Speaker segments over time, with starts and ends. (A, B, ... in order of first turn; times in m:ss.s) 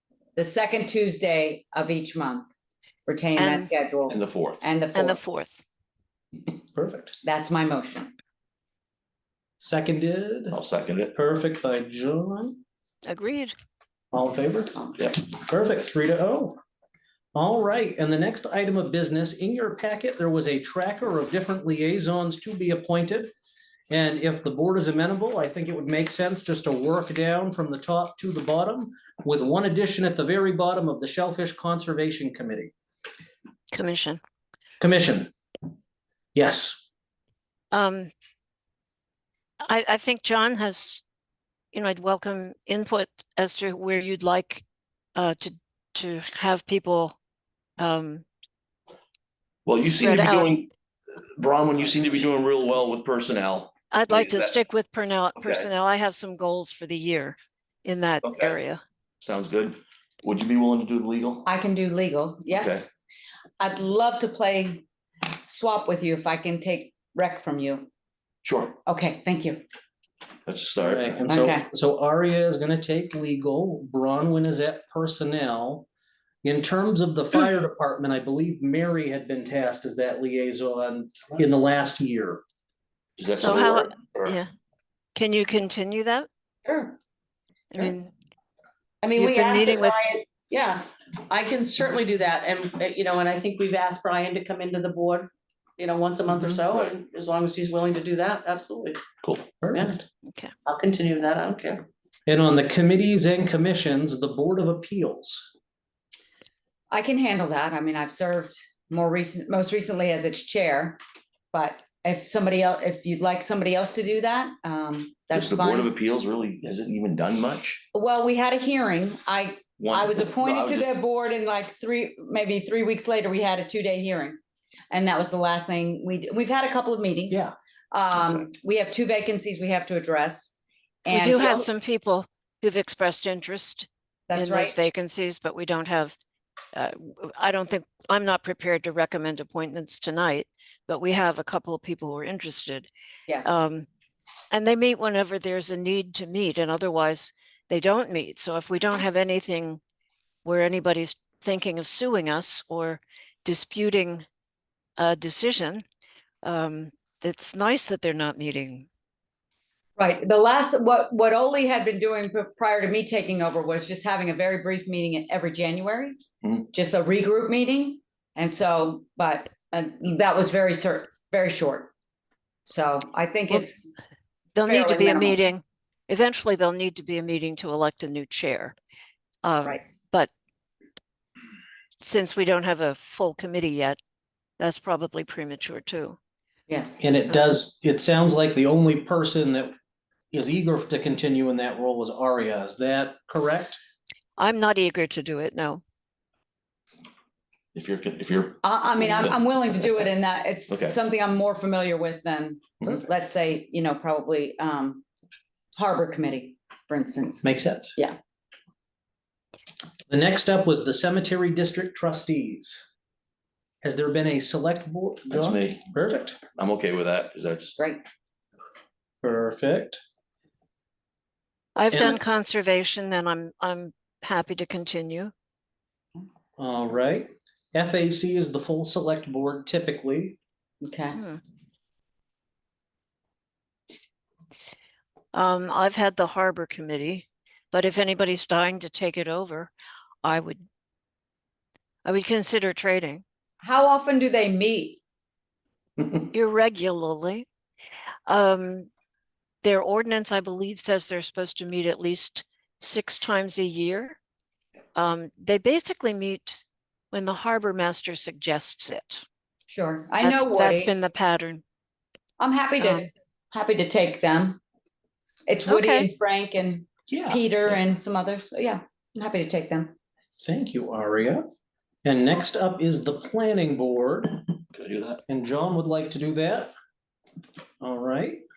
0:00.4-0:02.5 A
0:03.1-0:05.2 A
0:03.4-0:03.7 B
0:04.1-0:04.6 C
0:04.9-0:05.6 B
0:06.7-0:07.2 D
0:07.2-0:08.1 A
0:09.6-0:10.6 D
0:10.5-0:11.1 C
0:11.1-0:12.6 D
0:13.0-0:13.5 B
0:14.1-0:16.6 D
0:17.3-0:23.3 D
0:23.9-0:32.7 D
0:33.7-0:34.2 B
0:34.8-0:35.3 D
0:36.3-0:36.8 D
0:37.7-0:38.1 B
0:39.6-0:41.0 B
0:41.7-0:44.6 B
0:45.1-0:47.2 B
0:47.8-0:48.2 B
0:49.6-0:50.7 C
0:49.8-0:50.5 B
0:51.4-0:54.5 C
0:53.9-0:58.8 B
0:55.4-0:55.7 C
0:58.2-0:58.5 C
0:59.2-1:01.5 C
1:01.4-1:02.9 A
1:02.5-1:02.8 C
1:03.6-1:04.8 A
1:05.4-1:07.9 A
1:08.4-1:08.8 C
1:08.8-1:09.6 A
1:10.4-1:11.2 C
1:10.8-1:15.9 D
1:11.3-1:11.6 A
1:16.4-1:22.4 D
1:23.2-1:24.4 C
1:23.4-1:24.5 B
1:25.1-1:26.3 B
1:26.6-1:27.0 E
1:27.7-1:28.1 B
1:29.0-1:39.0 E
1:29.2-1:30.0 B
1:36.7-1:36.9 C
1:39.2-1:39.6 C
1:39.6-1:40.0 D
1:39.7-1:40.0 E
1:40.6-1:41.8 E
1:42.3-1:45.5 D
1:46.9-1:51.0 A
1:51.5-1:55.9 A
1:55.3-1:57.8 C
1:57.9-2:04.4 A
1:59.8-2:00.9 C
2:04.9-2:11.7 A
2:11.1-2:16.1 B
2:14.3-2:14.8 A
2:16.7-2:22.9 B
2:23.3-2:23.6 A
2:23.4-2:23.9 B
2:24.5-2:29.8 B
2:30.4-2:34.2 B
2:35.0-2:35.8 B
2:36.4-2:38.9 B
2:40.0-2:46.2 A
2:46.7-2:51.9 A
2:52.6-2:53.9 A
2:54.5-2:58.7 B
2:54.6-2:55.4 A
2:59.4-3:00.3 B
3:02.0-3:04.0 B
3:04.6-3:06.2 B
3:06.7-3:07.0 A
3:07.0-3:09.7 D
3:10.3-3:13.8 D
3:14.4-3:15.8 B
3:17.7-3:19.3 C
3:18.6-3:25.0 A
3:20.7-3:21.0 C
3:25.7-3:27.4 A
3:27.4-3:28.0 D
3:30.1-3:32.8 D
3:33.8-3:36.4 D
3:35.3-3:35.9 C
3:36.5-3:37.8 C
3:37.8-3:38.0 A
3:39.2-3:40.0 D
3:41.8-3:45.3 B
3:41.9-3:42.2 D
3:46.6-3:50.4 D
3:50.8-3:51.2 A
3:51.1-3:51.4 B
3:55.3-3:59.7 B
4:00.2-4:00.6 B
4:02.0-4:03.2 B
4:03.6-4:05.0 A
4:06.3-4:07.5 B
4:08.3-4:08.9 B
4:09.6-4:14.2 B
4:14.9-4:19.2 B
4:19.7-4:20.9 A
4:20.2-4:21.6 B
4:22.4-4:24.6 A
4:22.8-4:23.1 B
4:25.5-4:29.9 A
4:25.7-4:26.1 B
4:27.1-4:27.5 D
4:30.4-4:31.4 D
4:32.0-4:34.4 D
4:34.7-4:35.2 C
4:35.3-4:36.7 D
4:37.8-4:38.4 D